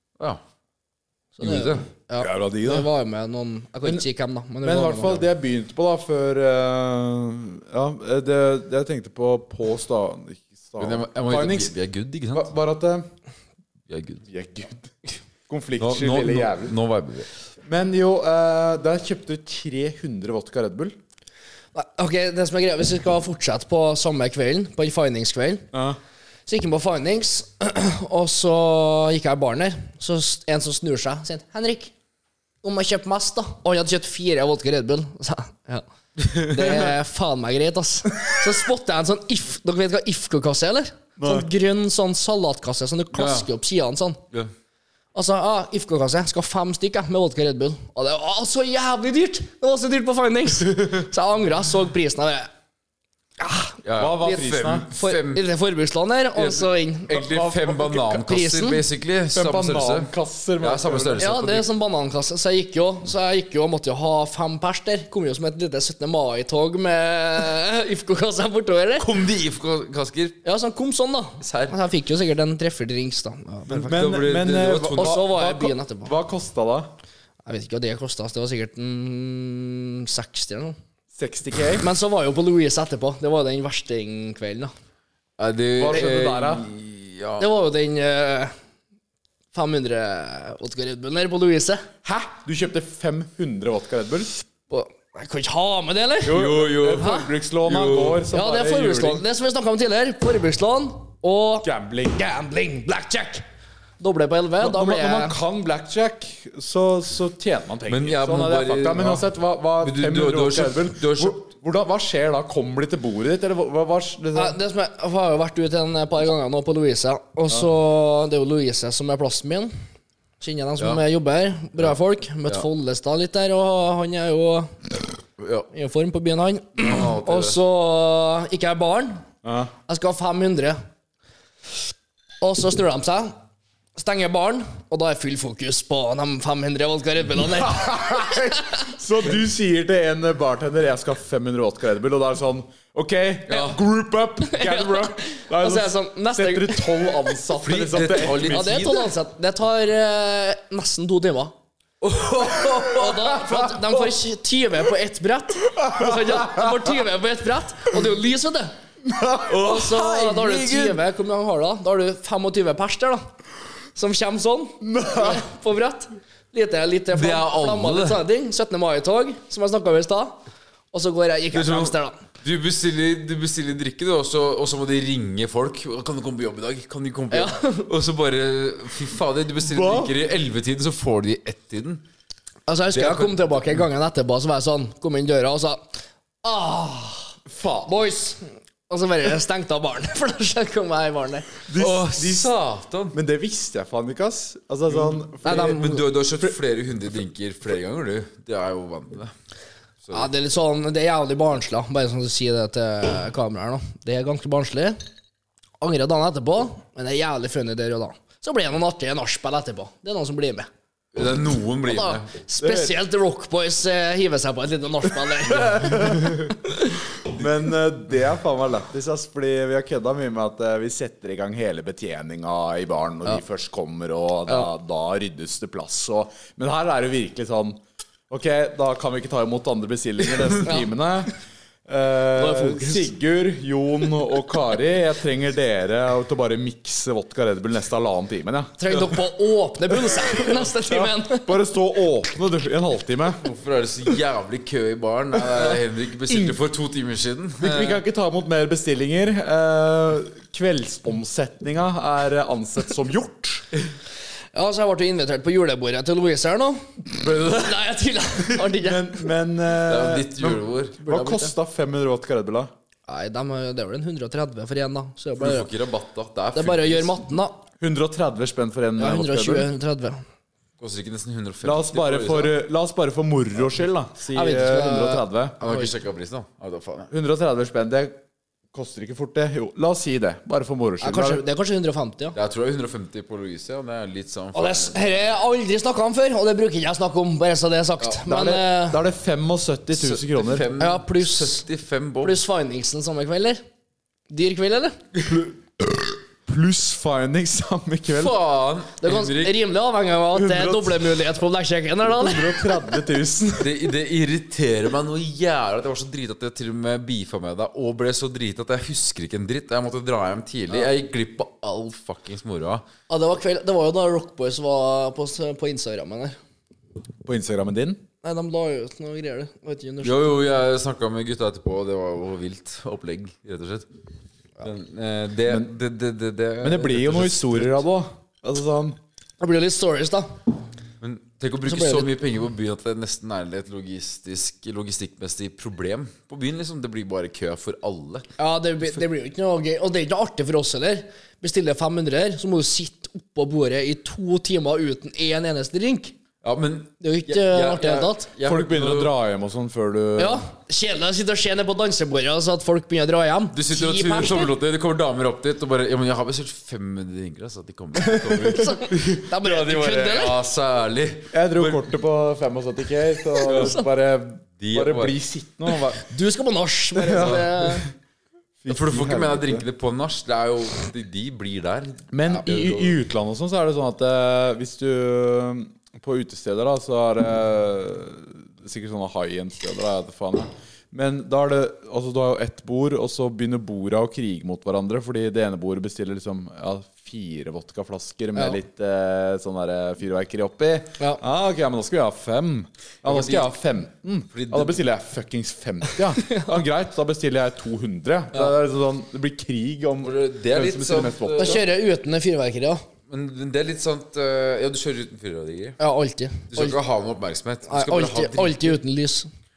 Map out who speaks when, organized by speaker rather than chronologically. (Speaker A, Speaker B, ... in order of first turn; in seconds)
Speaker A: 1.4-5.3, 21.7-25.7, 26.5-31.9, 32.6-44.2, 45.1-52.5, 53.4-57.3, 58.2-58.8, 61.2-69.1, 70.4-74.0, 74.9-76.1, 77.5-80.8, 81.8-84.7, 87.4-88.5, 89.5-91.9, 94.7-96.4, 97.0-97.3, 98.3-103.4, 104.0-105.4, 114.3-119.7, 120.4-124.9, 125.7-129.2, 129.9-130.8, 132.4-133.3, 134.0-138.9, 144.4-147.3, 148.2-151.5, 152.6-158.7, 159.5-163.2, 164.0-170.4, 170.9-172.2, 177.3-177.9, 182.7-185.9, 186.4-191.5, 195.4-196.0, 200.1-205.0, 205.8-210.7, 211.8-216.5, 230.7-230.9, 232.4-233.1, 238.8-241.6, 254.5-259.3, 261.1-261.5, 263.1-265.7, 266.6-267.6, 269.0-270.2, 274.3-275.9, 281.0-282.4, 284.5-289.0, 290.8-291.6, 292.2-293.6, 294.3-295.0, 299.0-302.8, 313.1-316.4, 318.2-320.3, 329.4-330.4, 331.7-332.1, 338.4-346.1, 347.0-348.3, 350.2-354.5, 358.4-360.4, 363.4-363.8, 366.0-367.9, 396.2-396.5, 401.4-402.8, 405.8-406.8, 407.7-409.3
Speaker B: 1.4-1.9, 10.8-12.5, 13.9-14.2, 15.8-17.3, 36.2-36.8, 43.1-43.5, 53.8-55.4, 56.4-60.1, 60.6-61.7, 69.0-70.4, 71.4-71.8, 73.7-75.2, 85.4-87.5, 96.3-98.2, 107.9-109.3, 109.8-111.4, 120.8-121.0, 125.4-125.7, 126.8-127.6, 143.5-143.8, 147.6-149.1, 152.0-154.0, 159.5-161.0, 167.1-168.2, 171.5-182.0, 182.9-183.8, 191.8-193.2, 195.4-199.3, 200.0-200.3, 211.1-212.3, 243.4-248.0, 257.1-257.8, 259.8-261.0, 265.4-267.1, 270.8-272.6, 275.6-277.1, 282.3-285.2, 289.9-292.4, 298.1-299.6, 303.6-312.9, 320.0-323.9, 324.6-327.8, 331.0-338.3, 346.4-349.1, 353.5-361.9, 363.4-363.8, 364.6-365.2, 367.2-367.7, 368.7-373.0, 393.0-393.5, 394.3-394.8, 400.0-401.6, 403.1-405.8, 406.5-408.8
Speaker C: 2.2-2.9, 4.6-11.7, 12.3-13.1, 14.3-14.9, 15.5-16.8, 17.7-20.9, 25.7-26.0, 41.2-41.5, 54.0-54.9, 57.1-58.2, 59.3-61.3, 73.8-76.9, 81.1-81.9, 85.8-86.7, 92.0-94.3, 96.2-99.2, 101.6-102.2, 104.6-114.6, 129.4-129.7, 137.4-148.9, 155.8-156.7, 159.1-159.5, 164.8-165.5, 179.6-180.1, 187.5-188.0, 191.7-192.5, 193.1-195.9, 212.6-213.0, 215.5-216.6, 217.3-227.8, 228.3-231.3, 231.9-238.8, 240.3-243.4, 247.6-253.7, 258.7-262.7, 267.8-269.7, 271.6-275.6, 277.1-278.2, 278.7-281.4, 288.2-290.7, 295.3-298.4, 300.3-301.2, 302.1-303.8, 317.2-318.0, 326.6-329.0, 348.4-350.4, 358.0-358.7, 361.3-366.1, 366.9-367.9, 368.6-369.7, 372.1-401.6